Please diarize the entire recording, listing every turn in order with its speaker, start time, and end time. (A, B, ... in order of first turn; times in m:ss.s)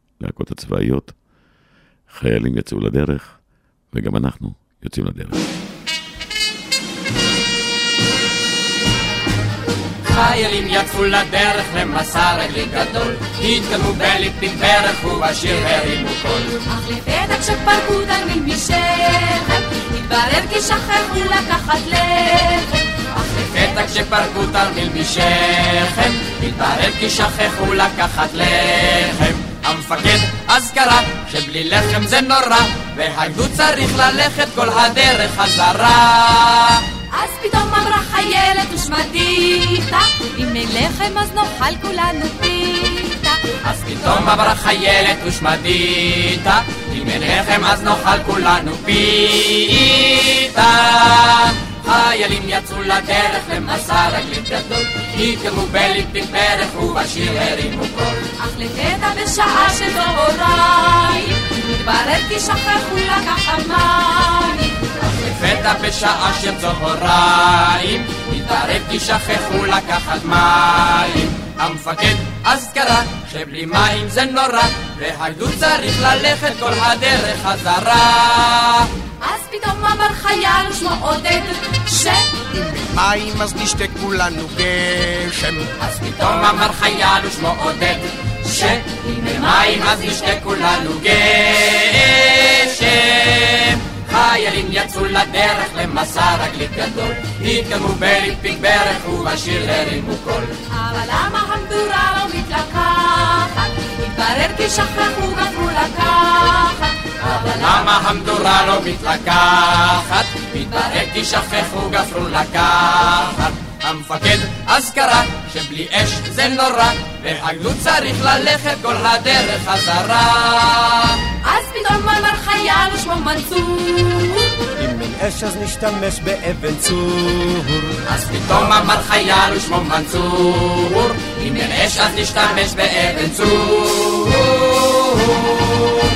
0:00.2-0:01.2 A
0:02.1-0:03.4 A
0:03.9-0:05.4 A
0:10.1-0:16.6 B
0:16.7-0:22.7 C
0:23.2-0:36.8 B
0:37.2-0:43.4 C
0:43.6-0:58.3 B
0:58.4-1:04.7 C
1:05.0-1:18.9 B
1:19.2-1:22.2 C
1:22.6-1:25.6 D
1:25.8-1:40.5 B
1:40.8-1:46.9 C
1:47.2-2:01.2 B
2:01.4-2:04.5 C
2:04.8-2:07.9 E
2:08.1-2:15.8 B